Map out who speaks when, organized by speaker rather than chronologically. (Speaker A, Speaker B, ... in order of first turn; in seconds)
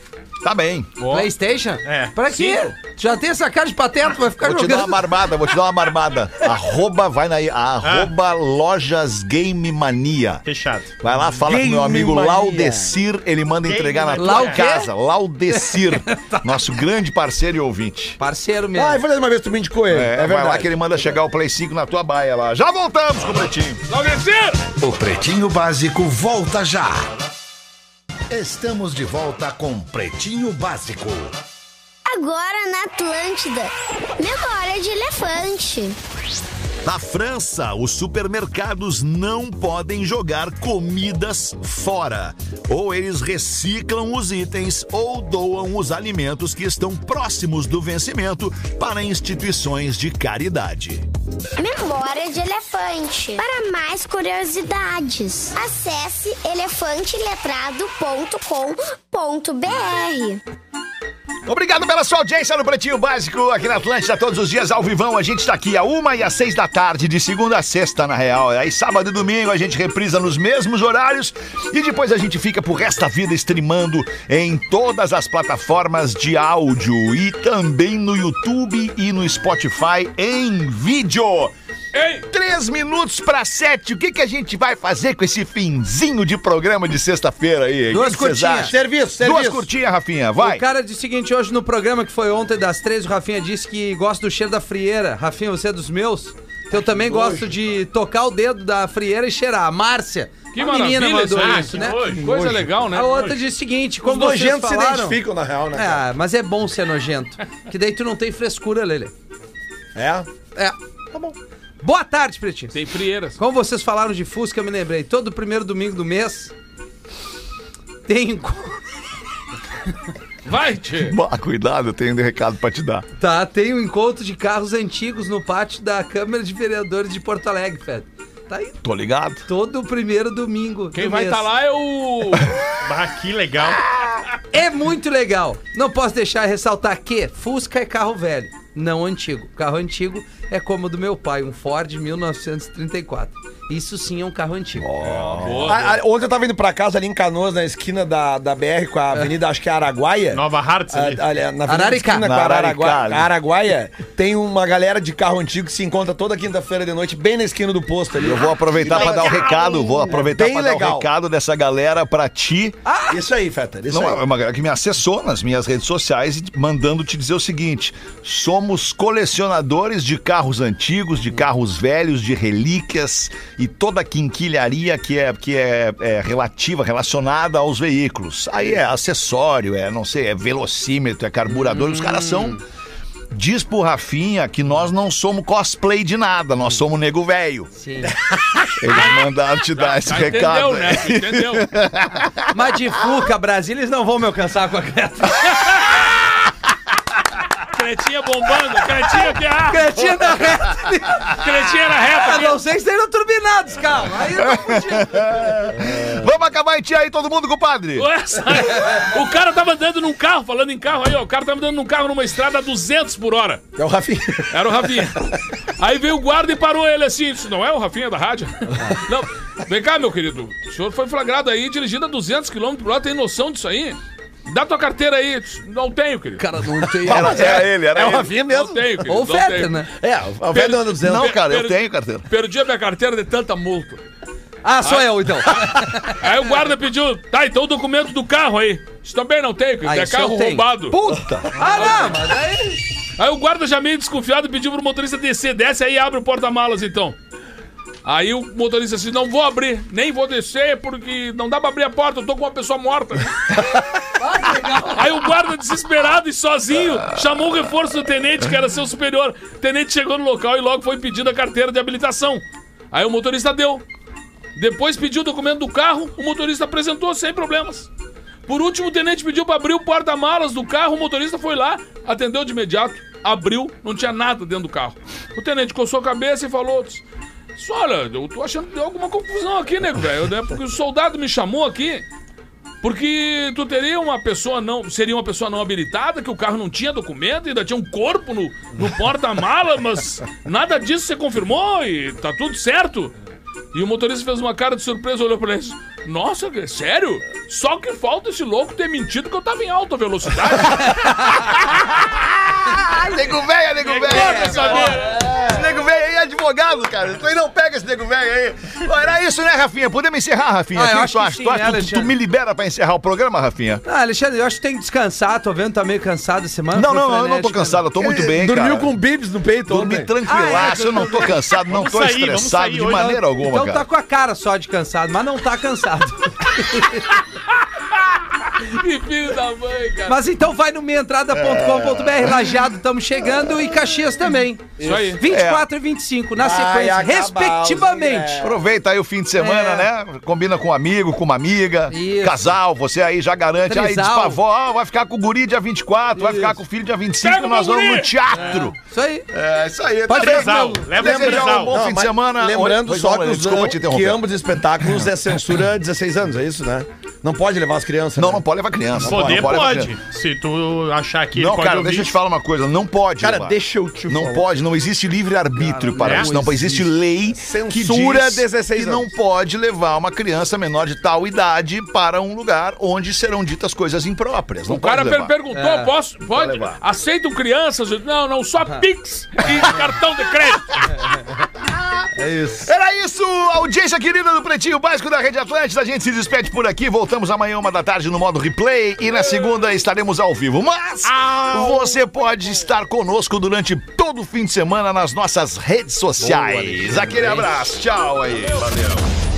Speaker A: 0.4-0.9, 4.4-10.4, 11.0-18.2, 19.9-23.8, 36.8-51.0, 61.5-81.5, 82.3-90.6, 121.0-123.0, 128.8-129.5, 144.8-145.8, 152.2-153.3, 158.1-162.8, 163.9-182.6, 183.3-187.7, 188.8-192.5, 204.3-208.1, 227.0-228.4, 231.0-232.3, 301.3-313.8, 316.7-318.9, 319.7-323.9, 331.3-332.6, 335.3-335.7, 338.4-348.7, 349.3-354.2, 358.2-359.9, 361.4-375.3, 376.3-376.8, 381.6-382.1, 382.6-399.1
Speaker B: 1.0-1.3, 1.9-2.7, 7.8-8.1, 10.4-10.9, 13.7-14.7, 101.3-102.3, 132.8-133.8, 150.3-151.2, 159.2-159.6, 304.0-305.2, 321.7-323.2, 350.1-351.8, 359.1-362.1, 366.0-366.6
Speaker C: 1.0-5.2, 14.2-14.9, 15.5-16.7, 18.2-19.0, 87.9-88.7, 90.4-102.2, 102.9-105.2, 105.7-109.1, 111.8-112.8, 113.4-116.5, 118.0-119.0, 123.2-128.8, 129.4-131.4, 134.5-145.1, 151.7-152.3, 162.8-163.2, 181.5-182.6, 187.8-188.2, 192.5-195.7, 199.7-205.3, 226.4-227.6, 229.1-229.9, 234.6-236.2, 239.8-242.8, 254.2-255.2, 304.1-305.0, 310.7-312.1, 313.9-317.8, 320.3-321.3, 322.9-327.1, 330.1-338.5, 339.4-339.9, 341.9-342.5, 343.7-344.4, 346.2-346.6, 348.4-349.3, 350.1-350.9, 365.6-366.9, 375.5-375.9, 382.2-382.7, 396.2-397.5
Speaker D: 11.4-13.0, 18.7-21.2, 88.7-89.7, 96.7-97.6, 102.2-102.7, 104.0-106.0, 110.0-110.3, 145.7-161.1, 163.1-164.2, 205.7-206.3, 213.8-215.4, 226.9-228.9, 229.9-231.3, 241.0-241.6, 304.1-305.7, 318.0-320.1, 334.8-335.2, 336.4-338.6, 351.0-359.7, 363.2-364.5, 367.3-369.1
Speaker E: 23.9-24.6, 81.9-82.3, 100.5-103.3, 112.7-113.4, 120.5-121.2, 130.9-132.6, 145.4-146.0, 188.9-191.7, 195.6-196.1, 197.6-200.3, 201.3-202.6, 207.9-213.6, 214.5-215.2, 215.8-226.4, 228.4-229.8, 230.5-234.0, 234.8-241.0, 241.7-242.2, 243.2-247.2, 248.1-253.9, 254.8-263.8, 264.6-267.9, 268.5-277.0, 277.6-282.1, 282.8-293.1, 293.7-301.8, 303.9-305.1, 327.9-330.2, 334.8-335.2, 347.2-348.2, 374.7-380.9, 389.2-389.5, 398.3-398.6
Speaker F: 24.8-27.1, 28.3-31.4
Speaker G: 32.0-36.0, 51.6-60.4